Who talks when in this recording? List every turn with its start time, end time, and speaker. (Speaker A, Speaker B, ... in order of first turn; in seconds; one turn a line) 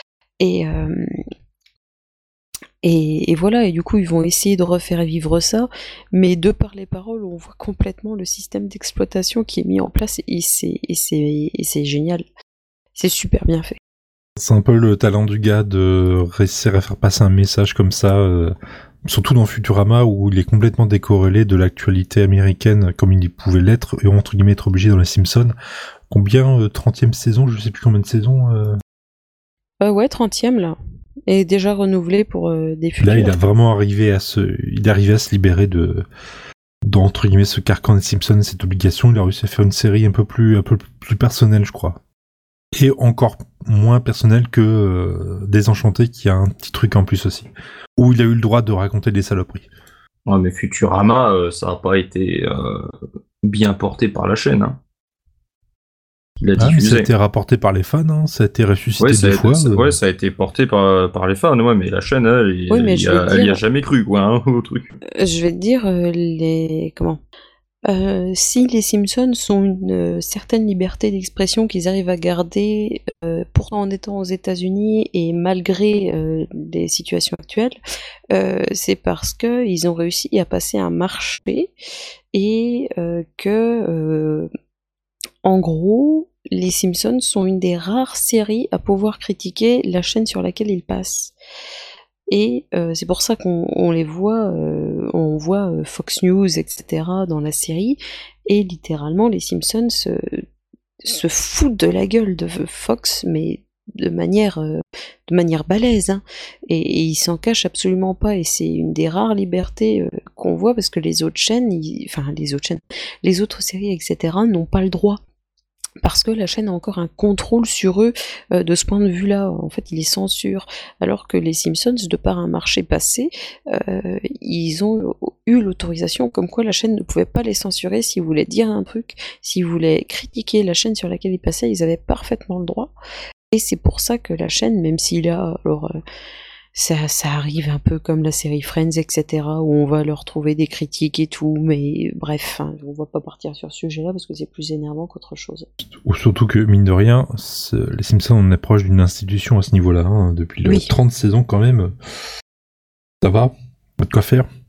Speaker A: 0.4-1.1
Speaker A: 2.8-12.2
Speaker A: 12.9-13.8
Speaker B: 14.4-18.5
Speaker B: 19.1-25.5
Speaker B: 26.1-28.7
Speaker A: 29.8-33.4
Speaker B: 33.0-36.0
Speaker B: 36.9-42.0
Speaker B: 42.8-49.7
Speaker C: 50.3-52.8
Speaker C: 53.4-54.8
Speaker C: 56.4-57.1
Speaker B: 56.6-60.0
Speaker C: 59.0-64.9
Speaker A: 62.7-63.6
Speaker A: 65.2-67.2
Speaker A: 67.9-77.8
Speaker A: 78.3-81.7
Speaker A: 82.3-84.5
Speaker A: 85.4-91.3
Speaker A: 92.3-100.4
Speaker A: 101.0-115.2
Speaker A: 116.0-132.9
Speaker A: 133.5-136.0
Speaker A: 136.8-145.7
Speaker B: 146.0-151.9
Speaker A: 150.6-150.9
Speaker B: 153.2-154.5